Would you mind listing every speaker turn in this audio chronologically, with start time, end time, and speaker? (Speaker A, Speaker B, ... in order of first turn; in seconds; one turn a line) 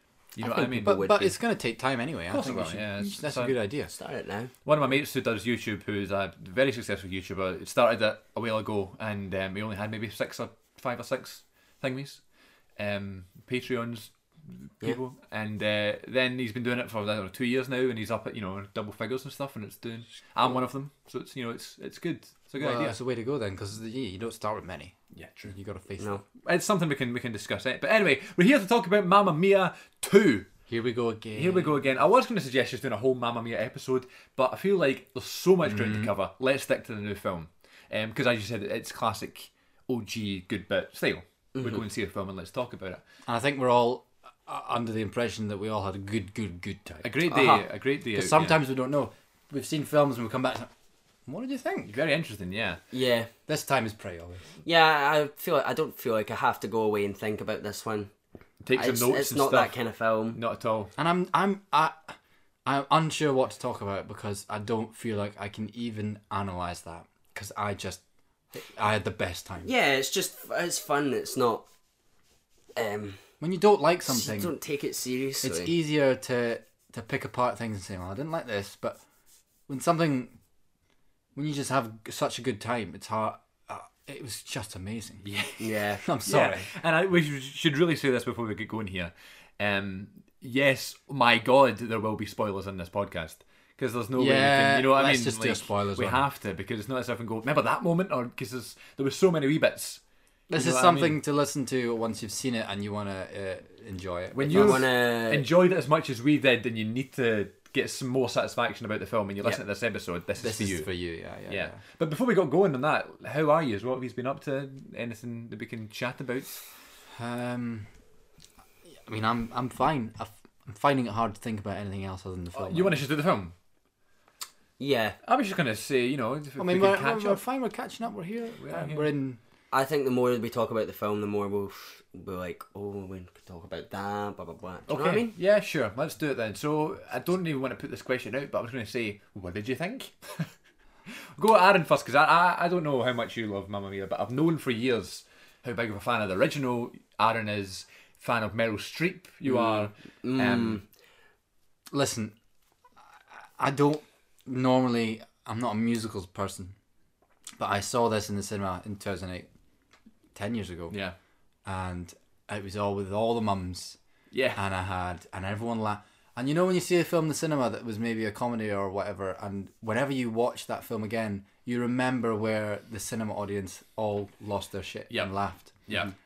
Speaker A: 0.4-1.0
Speaker B: 0.4-1.3
Speaker C: 0.8-3.9
Speaker A: 2.3-3.5
Speaker B: 3.9-4.5
Speaker A: 4.6-12.2
Speaker A: 12.8-22.9
Speaker C: 22.6-26.2
Speaker A: 25.1-25.5
Speaker A: 26.4-30.5
Speaker C: 30.7-31.7
Speaker A: 31.3-43.0
Speaker C: 35.6-36.1
Speaker B: 41.5-41.8
Speaker C: 43.3-47.2
Speaker A: 47.0-48.6
Speaker B: 47.3-47.6
Speaker C: 48.1-50.7
Speaker C: 51.2-51.9
Speaker A: 51.9-52.8
Speaker B: 52.9-53.3
Speaker C: 53.5-54.4
Speaker B: 54.6-58.1
Speaker A: 58.6-59.7
Speaker B: 58.7-60.4
Speaker A: 60.3-60.9
Speaker C: 61.0-69.7
Speaker B: 69.6-71.6
Speaker B: 72.8-73.2
Speaker C: 73.4-74.5
Speaker B: 74.0-75.7
Speaker C: 75.4-79.0
Speaker C: 79.7-80.4
Speaker C: 81.3-85.2
Speaker A: 85.2-85.7
Speaker B: 85.6-86.0
Speaker C: 86.0-86.7
Speaker A: 86.2-100.0
Speaker C: 94.2-96.2
Speaker C: 100.5-104.8
Speaker A: 100.5-101.2
Speaker A: 104.3-110.9
Speaker B: 104.5-105.5
Speaker C: 110.4-111.8
Speaker A: 111.5-116.6
Speaker C: 117.1-117.9
Speaker C: 119.0-123.0
Speaker A: 122.6-123.5
Speaker B: 124.8-125.2
Speaker A: 125.2-127.4
Speaker C: 126.6-129.4
Speaker A: 128.6-129.1
Speaker B: 129.7-135.3
Speaker A: 134.9-140.5
Speaker A: 141.3-150.8
Speaker B: 149.5-150.8
Speaker C: 151.9-152.3
Speaker C: 153.6-156.7
Speaker C: 157.6-159.5
Speaker C: 160.3-160.9
Speaker A: 160.9-161.2
Speaker C: 161.6-164.0
Speaker A: 164.3-164.6
Speaker C: 164.5-175.9
Speaker A: 175.1-176.1